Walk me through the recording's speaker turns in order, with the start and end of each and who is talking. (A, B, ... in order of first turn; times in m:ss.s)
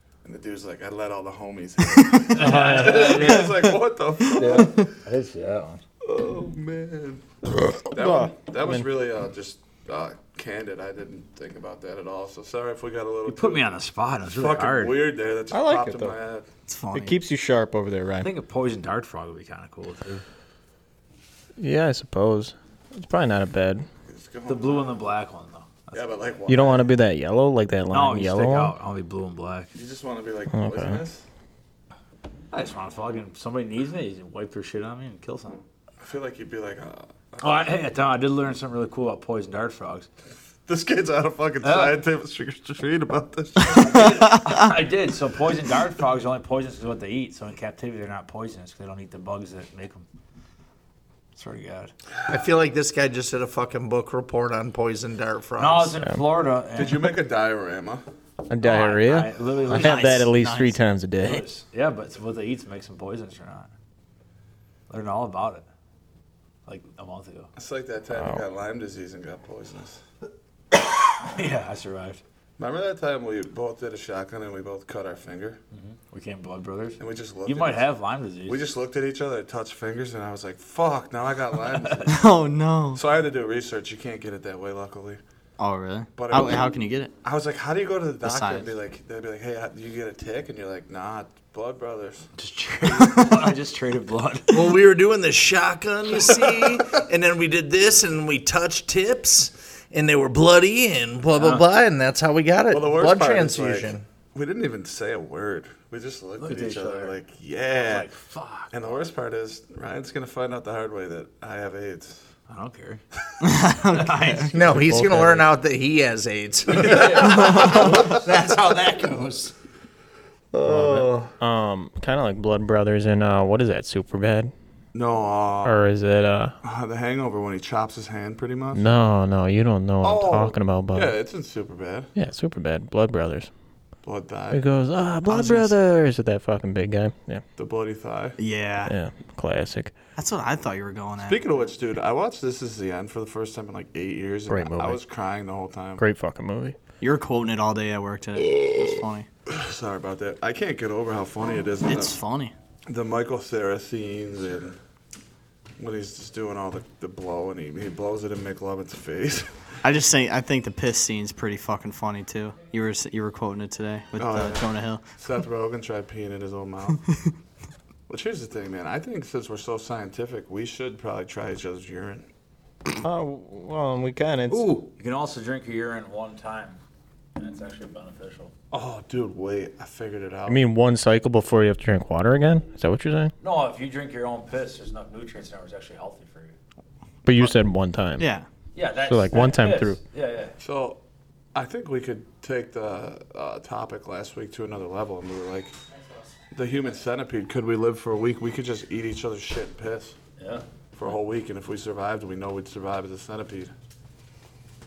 0:00.2-0:04.9 A
0:02.3-0:03.6 B
0:04.3-0:05.8 B
0:06.0-0:07.3 A
0:07.9-0:08.9 C
0:07.9-0:13.7 A
0:13.3-0:15.1 B
0:14.3-0:16.5 A
0:15.5-0:16.2 C
0:16.7-0:17.2 D
0:16.9-0:18.3 C
0:18.2-0:20.2 B
0:21.6-0:23.9 C
0:24.1-0:25.0 A
0:24.5-0:26.0 B
0:25.9-0:26.9 A
0:26.5-0:28.8 C
0:27.9-0:29.7 B
0:29.7-0:31.3 A
0:30.5-0:31.0 C
0:32.5-0:35.6 B
0:36.0-0:37.7 A
0:37.4-0:40.1 B
0:40.7-0:44.4 A
0:41.6-0:42.0 B
0:43.7-0:50.1 B
0:43.7-0:44.7 D
0:51.4-0:51.9 B
0:52.3-0:56.0 E
0:55.6-0:57.0 B
0:56.8-0:58.0 A
0:58.5-1:01.4 C
0:58.6-1:00.3 B
0:59.7-1:00.8 D
1:01.2-1:03.7 B
1:04.9-1:05.6 B
1:06.7-1:07.5 B
1:07.6-1:10.0 A
1:08.1-1:08.4 C
1:10.8-1:12.2 B
1:12.6-1:15.6 A
1:15.7-1:18.6 B
1:17.0-1:17.9 A
1:18.5-1:22.3 A
1:22.0-1:23.0 D
1:23.0-1:25.2 A
1:25.6-1:27.1 D
1:26.2-1:32.3 A
1:28.2-1:28.7 D
1:32.4-1:34.7 B
1:33.0-1:33.4 D
1:34.5-1:44.0 E
1:41.4-1:41.6 B
1:42.7-1:48.1 A
1:46.4-1:47.2 B
1:47.8-1:49.0 B
1:48.7-1:52.2 A
1:52.5-1:53.0 B
1:53.4-1:54.5 D
1:53.9-1:54.5 B
1:54.5-1:59.6 E
1:54.6-1:55.5 C
1:56.8-1:58.0 A
1:56.8-1:57.6 B
1:57.4-1:57.8 D
2:00.6-2:01.2 D
2:00.6-2:04.5 C
2:04.9-2:05.8 A
2:05.6-2:06.6 C
2:06.6-2:08.9 A
2:08.8-2:11.2 C
2:10.0-2:12.1 A
2:12.2-2:13.5 C
2:14.0-2:14.6 A
2:14.5-2:17.4 C
2:15.3-2:15.7 D
2:17.6-2:18.4 A
2:18.4-2:18.9 D
2:18.8-2:20.0 C
2:20.2-2:21.6 D
2:21.2-2:26.0 A
2:24.5-2:25.0 C
2:26.0-2:26.8 C
2:27.0-2:29.3 D
2:29.5-2:32.2 A
2:31.8-2:32.5 D
2:32.9-2:34.8 A
2:35.8-2:39.5 A
2:39.8-2:45.0 D
2:44.2-2:47.1 A
2:48.1-2:52.3 A
2:53.0-2:54.7 C
2:54.5-2:56.8 B
2:57.4-2:58.5 B
2:58.7-3:00.6 A
3:00.5-3:03.3 C
3:03.4-3:06.6 B
3:07.2-3:08.2 C
3:08.2-3:08.4 D
3:08.8-3:10.6 B
3:09.0-3:10.0 C
3:10.6-3:11.0 A
3:11.5-3:15.7 A
3:16.5-3:20.2 A
3:20.4-3:20.6 B
3:21.0-3:23.7 A